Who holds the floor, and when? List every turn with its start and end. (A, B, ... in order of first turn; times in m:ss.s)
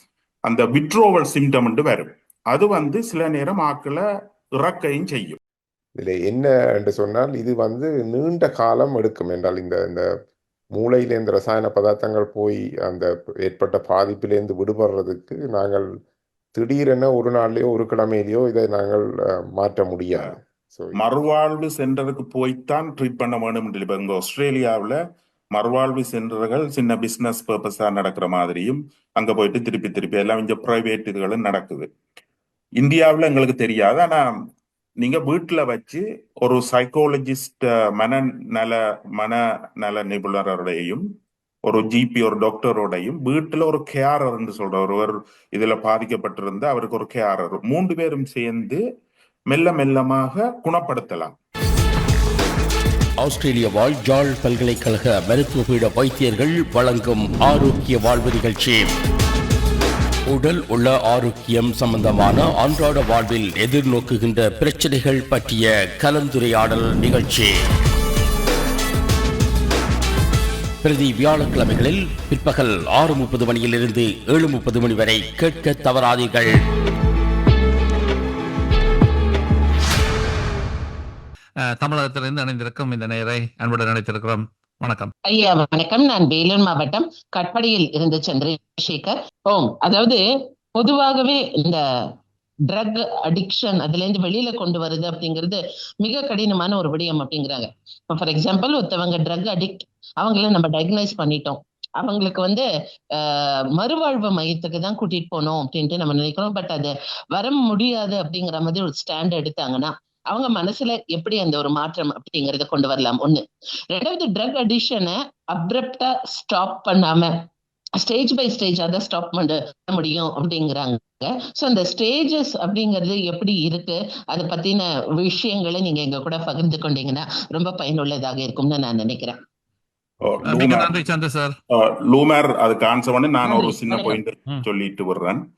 0:00.4-0:04.0 A
0:04.6-0:05.4 A
0:06.0-0:10.1 B
0:10.7-0:15.9 B
0:16.5-0:21.0 B
0:21.0-0:25.0 A
0:25.5-0:31.9 A
0:32.8-0:34.2 A
0:35.0-0:41.0 A
0:41.6-0:48.8 A
0:49.5-0:51.4 A
0:53.2-0:58.9 C
1:00.3-1:07.5 C
1:10.8-1:16.6 C
1:21.8-1:25.1 D
1:25.2-1:30.2 E
1:30.7-1:31.8 E
1:32.7-1:57.3 E
1:58.0-2:09.4 E
2:10.2-2:11.0 A
2:10.5-2:11.5 D
2:11.7-2:15.4 A
2:13.4-2:14.1 E